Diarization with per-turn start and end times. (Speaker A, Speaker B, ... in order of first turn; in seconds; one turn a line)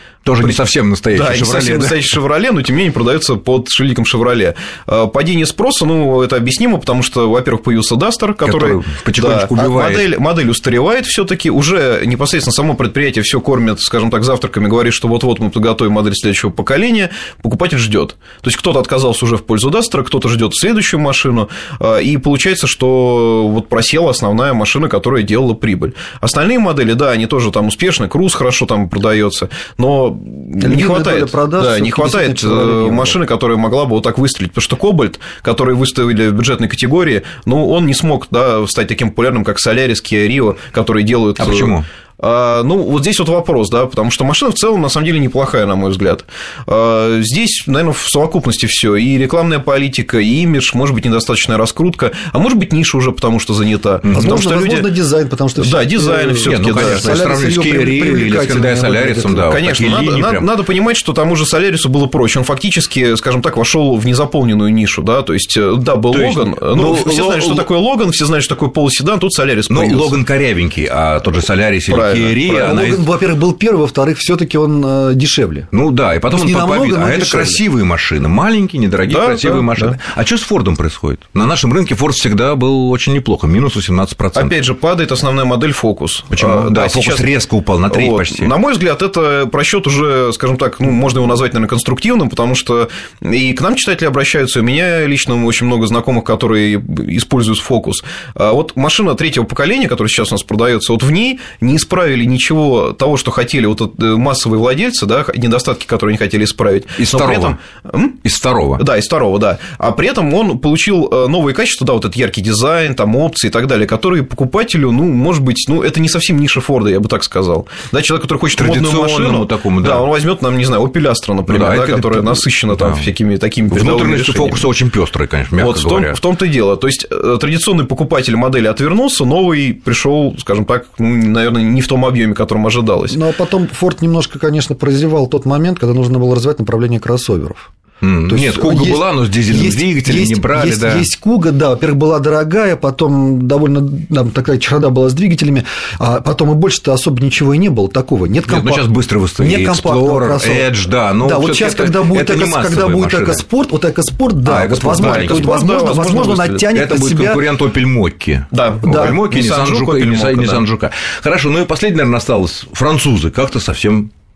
Speaker A: 0.2-2.2
Speaker B: 0.4-54.9
Speaker A: 8.4-10.1
Speaker C: 30.6-33.2
Speaker A: 41.4-41.9
Speaker C: 54.1-59.5
Speaker B: 55.6-57.1
Speaker A: 56.4-60.5
Speaker B: 59.4-70.2
Speaker A: 66.1-67.7
Speaker A: 69.7-73.1
Speaker B: 71.9-72.8
Speaker C: 72.5-75.7
Speaker A: 75.7-84.5
Speaker C: 76.3-77.6
Speaker B: 79.0-80.0
Speaker B: 84.4-87.4
Speaker A: 86.3-88.5
Speaker B: 87.9-108.2
Speaker A: 107.0-107.6
Speaker A: 108.2-108.8
Speaker B: 108.8-124.7
Speaker A: 118.5-120.1
Speaker A: 121.5-123.1
Speaker A: 123.7-126.2
Speaker B: 125.6-133.2
Speaker C: 133.1-137.7
Speaker A: 138.0-141.1
Speaker C: 138.3-148.8
Speaker A: 148.4-153.4
Speaker C: 149.4-157.5
Speaker A: 154.4-155.7
Speaker B: 155.0-156.7
Speaker A: 156.4-164.1
Speaker B: 158.5-160.6
Speaker C: 158.8-159.2